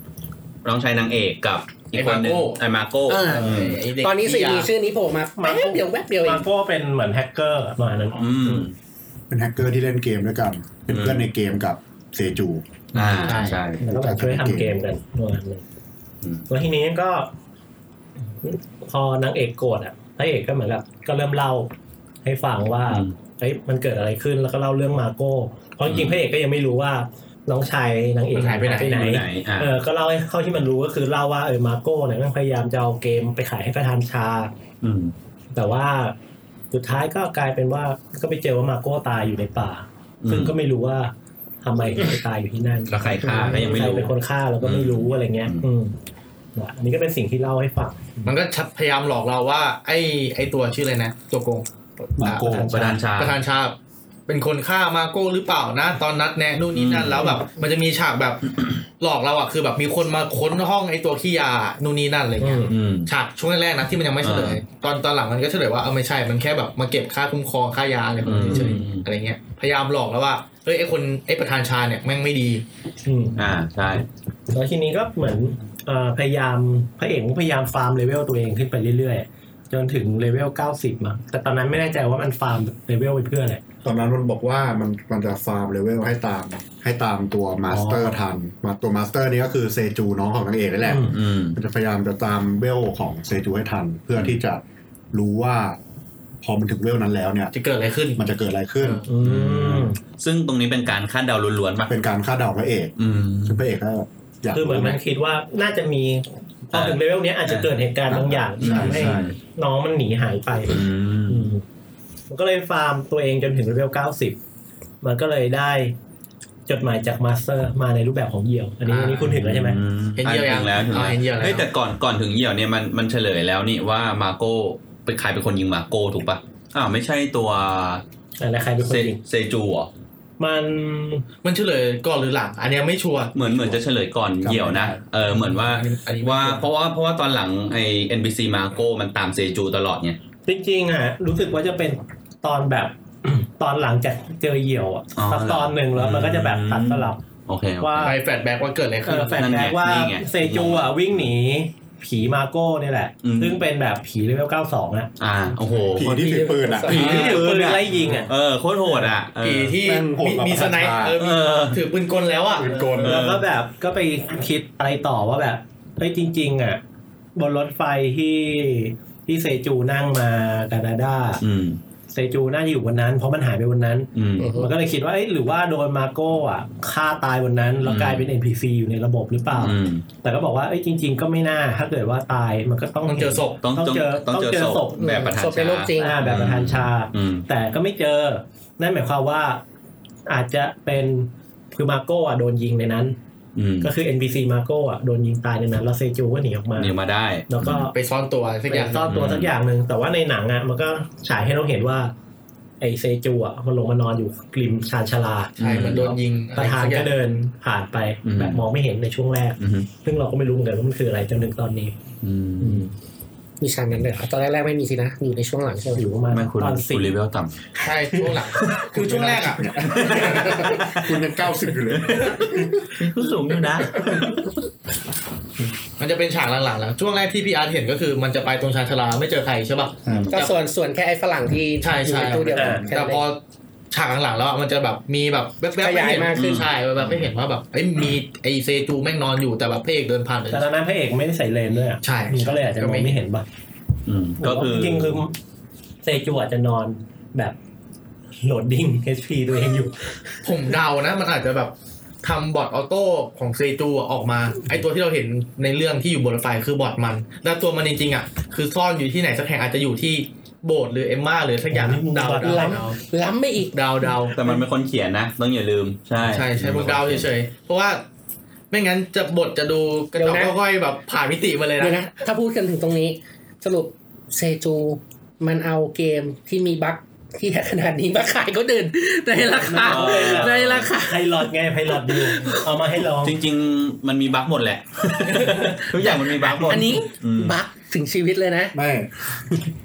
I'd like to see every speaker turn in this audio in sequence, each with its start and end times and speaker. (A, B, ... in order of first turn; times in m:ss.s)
0:00.6-0:03.8 A
0:01.9-0:02.6 B
0:03.1-0:06.4 C
0:03.2-0:04.7 B
0:05.4-0:08.7 D
0:08.2-0:08.7 A
0:09.3-0:14.8 E
0:10.9-0:11.3 A
0:13.0-0:13.8 A
0:13.2-0:13.6 B
0:13.8-0:15.6 D
0:16.5-0:17.3 D
0:18.4-0:21.7 D
0:22.2-0:34.5 D
0:22.9-0:23.2 A
0:25.9-0:26.2 A
0:28.3-0:29.0 B
0:28.8-0:29.7 A
0:34.8-0:35.1 A
0:35.5-0:36.2 D
0:36.7-0:46.0 D
0:40.2-0:40.5 A
0:42.9-0:45.6 A
0:46.6-0:48.4 D
0:48.3-0:52.5 B
0:52.2-0:52.8 E
0:52.5-0:53.0 D
0:52.5-0:53.4 A
0:53.2-0:53.8 B
0:54.3-0:58.5 B
0:56.7-0:57.3 A
0:59.0-1:12.6 B
1:02.4-1:02.7 D
1:02.7-1:03.1 A
1:04.2-1:04.6 A
1:08.2-1:09.1 A
1:08.5-1:08.9 D
1:13.1-1:13.4 D
1:13.4-1:14.1 A
1:14.5-1:23.6 D
1:23.8-1:35.8 E
1:27.7-1:28.2 D
1:30.8-1:31.2 D
1:31.1-1:31.6 A
1:36.4-1:37.5 E
1:37.5-1:38.2 B
1:38.2-1:39.0 E
1:39.1-1:40.0 D
1:39.2-1:41.9 A
1:41.9-1:45.0 E
1:43.0-1:43.6 A
1:44.5-1:51.6 D
1:46.7-1:47.7 A
1:48.1-1:49.3 E
1:48.6-1:49.4 A
1:50.6-1:51.5 A
1:52.3-1:54.4 D
1:55.0-1:56.0 D
1:56.7-1:59.8 D
1:58.9-1:59.3 B
1:59.2-2:08.0 A
2:00.2-2:01.7 B
2:08.4-2:09.2 D
2:08.8-2:09.9 A
2:10.4-2:11.3 D
2:11.4-2:13.4 B
2:13.4-2:20.2 A
2:14.4-2:15.0 E
2:15.3-2:16.7 B
2:20.5-2:27.2 D
2:25.2-2:28.1 A
2:27.8-2:28.2 D
2:28.0-2:29.6 B
2:29.0-2:35.1 D
2:29.4-2:31.0 A
2:33.2-2:33.6 A
2:35.2-2:36.2 A
2:35.9-2:37.3 E
2:36.0-2:37.4 C
2:36.9-2:39.8 A
2:36.9-2:38.3 D
2:39.4-2:42.8 B
2:39.8-2:41.2 E
2:41.2-2:41.8 A
2:42.6-2:43.3 E
2:43.0-2:43.4 A
2:43.0-2:46.8 D
2:47.4-2:51.4 D
2:51.4-2:51.8 A
2:52.1-3:05.3 D
2:54.2-2:54.6 A
2:54.4-2:54.7 C
2:57.8-2:58.3 A
2:59.6-3:00.0 A
3:03.1-3:03.6 B
3:03.6-3:07.5 A
3:05.0-3:06.2 C
3:06.0-3:09.6 D
3:10.3-3:13.2 D
3:13.6-3:13.9 A
3:13.8-3:17.0 D
3:16.8-3:17.9 A
3:17.5-3:17.9 D
3:17.9-3:19.1 B
3:18.7-3:22.1 D
3:19.0-3:19.5 A
3:22.8-3:32.0 D
3:25.6-3:27.1 B
3:25.6-3:26.2 A
3:28.2-3:28.6 A
3:29.6-3:29.9 A
3:32.2-3:32.8 A
3:32.6-3:32.9 D
3:33.6-3:36.1 C
3:35.9-3:37.1 D
3:36.3-3:37.6 A
3:37.8-3:40.7 B
3:38.9-3:43.0 E
3:39.9-3:41.1 A
3:41.9-3:44.5 A
3:43.9-3:44.2 E
3:46.0-3:50.5 B
3:50.1-3:50.4 E
3:50.1-3:50.4 A
3:50.3-3:53.2 C
3:51.8-3:53.4 B
3:52.5-3:52.8 D
3:53.9-4:00.7 B
3:55.8-3:56.6 C
3:56.3-3:57.2 A
4:00.5-4:03.4 D
4:02.0-4:03.2 B
4:04.1-4:05.2 A
4:04.4-4:05.3 D
4:06.0-4:07.6 D
4:08.4-4:10.5 D
4:10.4-4:23.0 B
4:21.7-4:22.9 D
4:22.4-4:23.7 C
4:23.7-4:24.5 B
4:24.3-4:27.3 A
4:26.3-4:28.0 B
4:28.7-4:32.0 B
4:30.2-4:30.6 C
4:31.8-4:41.4 C
4:39.6-4:43.4 D
4:39.8-4:40.8 A
4:42.0-4:42.6 C
4:43.2-4:47.6 A
4:45.4-4:48.8 C
4:48.7-4:49.4 E